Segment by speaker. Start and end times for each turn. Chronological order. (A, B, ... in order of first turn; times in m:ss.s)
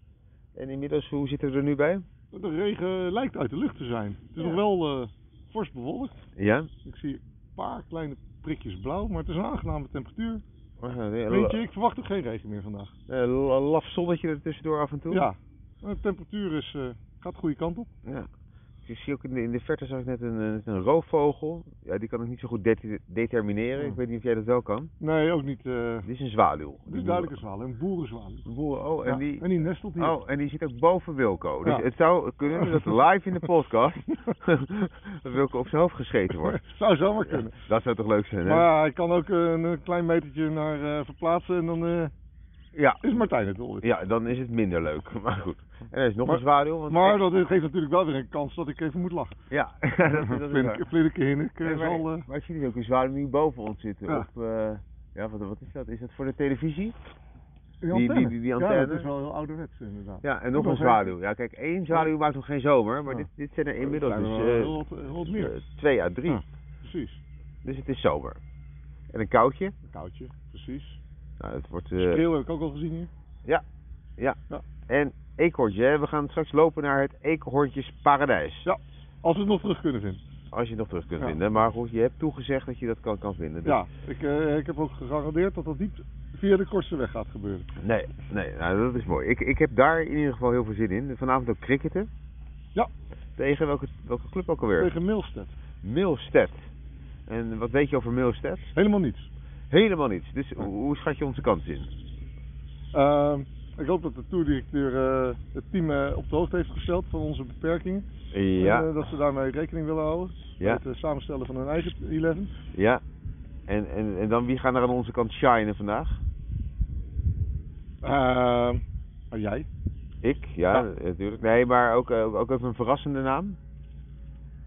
0:00.6-0:02.0 A
0:02.3-0:06.2 B
0:06.4-0:06.7 A
0:06.8-0:10.4 B
0:10.8-0:11.6 A
0:11.3-0:12.9 B
0:13.1-0:15.3 A
0:15.1-0:17.9 B
0:18.8-0:24.9 A
0:25.0-0:26.1 B
0:26.0-0:27.3 A
0:26.9-0:28.4 B
0:28.5-0:36.6 A
0:29.0-0:30.2 B
0:32.6-0:32.9 B
0:36.4-0:37.6 B
0:37.2-0:38.7 A
0:38.4-0:42.1 B
0:42.8-0:43.0 A
0:43.0-0:43.9 B
0:43.8-0:47.2 A
0:46.3-0:49.4 B
0:49.5-0:50.8 A
0:50.2-0:52.3 B
0:51.6-0:57.0 A
0:57.8-1:01.1 B
0:57.9-0:59.1 A
1:00.2-1:06.4 A
1:03.8-1:05.6 B
1:06.3-1:07.2 B
1:07.6-1:08.4 A
1:09.1-1:09.8 A
1:09.9-1:11.0 B
1:11.4-1:12.2 A
1:12.0-1:13.1 B
1:14.9-1:18.7 A
1:18.6-1:20.2 B
1:20.5-1:23.8 A
1:23.6-1:27.7 B
1:27.8-1:32.1 A
1:33.4-1:34.9 A
1:34.8-1:35.5 B
1:35.8-1:36.7 A
1:37.3-1:38.7 A
1:38.8-1:39.3 B
1:39.7-1:41.9 A
1:42.9-1:48.1 B
1:48.3-1:48.9 A
1:48.6-1:52.5 B
1:52.7-1:53.0 A
1:53.7-1:56.2 A
1:58.0-1:59.7 B
2:00.2-2:03.6 A